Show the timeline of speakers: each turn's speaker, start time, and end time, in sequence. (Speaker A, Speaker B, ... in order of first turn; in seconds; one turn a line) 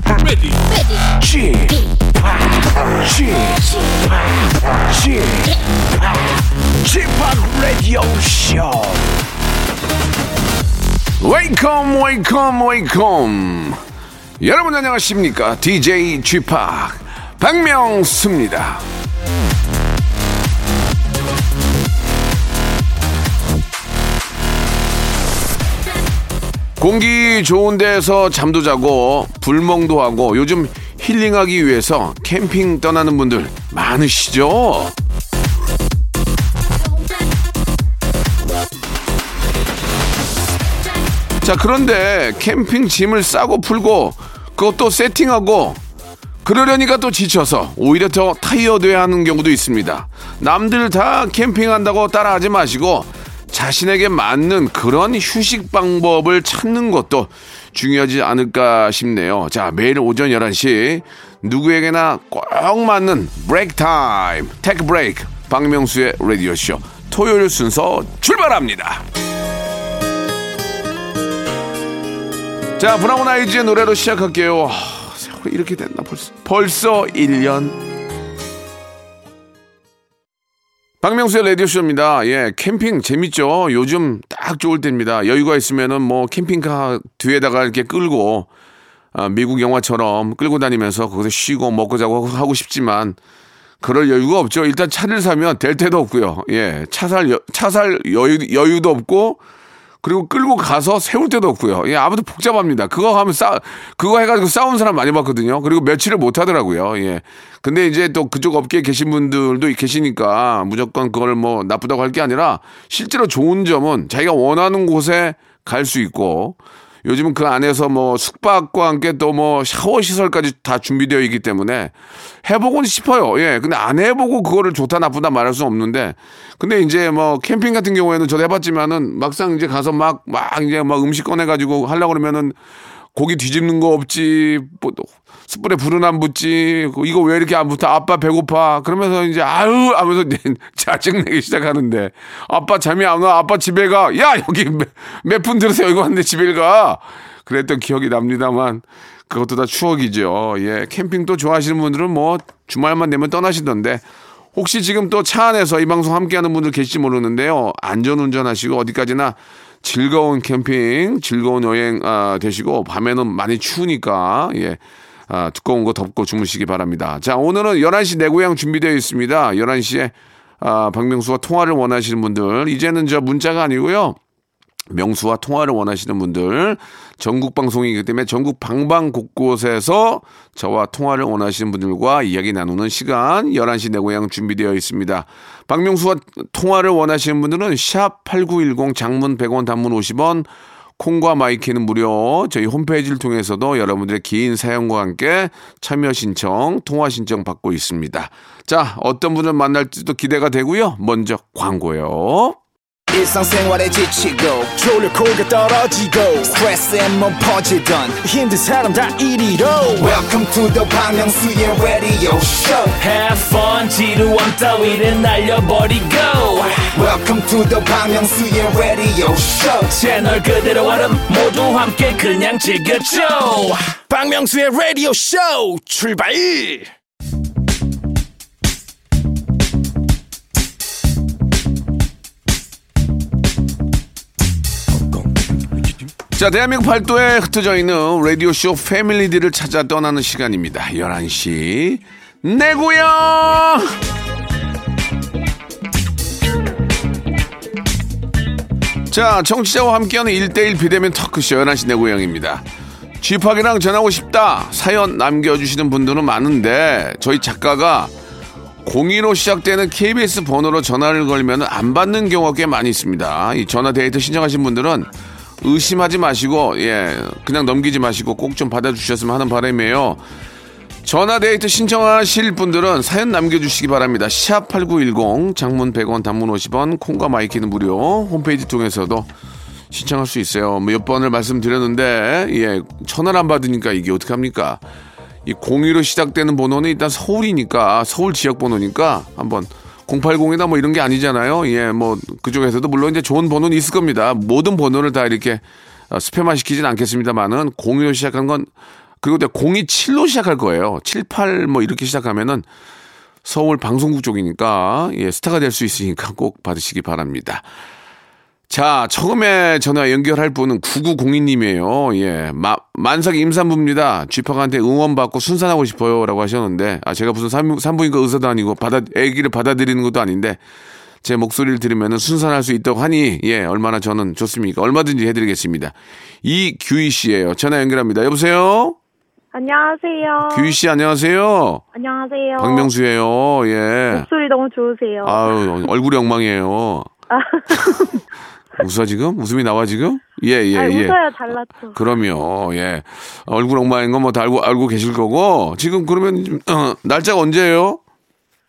Speaker A: 1.1-9.2
Speaker A: 11.2-13.8
Speaker A: 14.4-18.8
Speaker A: 26.8-34.9
Speaker A: 41.4-45.8
Speaker A: 46.4-69.0
Speaker A: 72.8-77.8
Speaker A: 81.0-88.5
Speaker A: 89.1-93.2
Speaker A: 93.8-99.4
Speaker A: 100.0-132.6
Speaker A: 133.1-174.2
Speaker A: 174.9-202.6
Speaker B: 203.1-212.9
Speaker C: 208.4-210.2
Speaker D: 213.0-217.0
Speaker B: 216.9-219.9
Speaker D: 219.9-223.9
Speaker C: 224.1-226.9
Speaker A: 236.3-244.0
Speaker A: 249.1-252.7
Speaker A: 253.2-258.1
Speaker A: 258.8-265.1
Speaker A: 265.6-270.2
Speaker A: 271.0-279.3
Speaker A: 279.9-284.8
Speaker A: 285.4-298.7
Speaker A: 299.2-302.7
Speaker A: 303.4-307.6
Speaker A: 308.7-320.6
Speaker A: 321.2-329.0
Speaker E: 329.5-330.8
Speaker A: 330.4-331.8
Speaker E: 331.9-332.9
Speaker A: 332.6-334.3
Speaker E: 334.1-335.5
Speaker A: 335.2-337.1
Speaker E: 337.3-338.2
Speaker A: 338.8-348.0
Speaker E: 340.7-342.0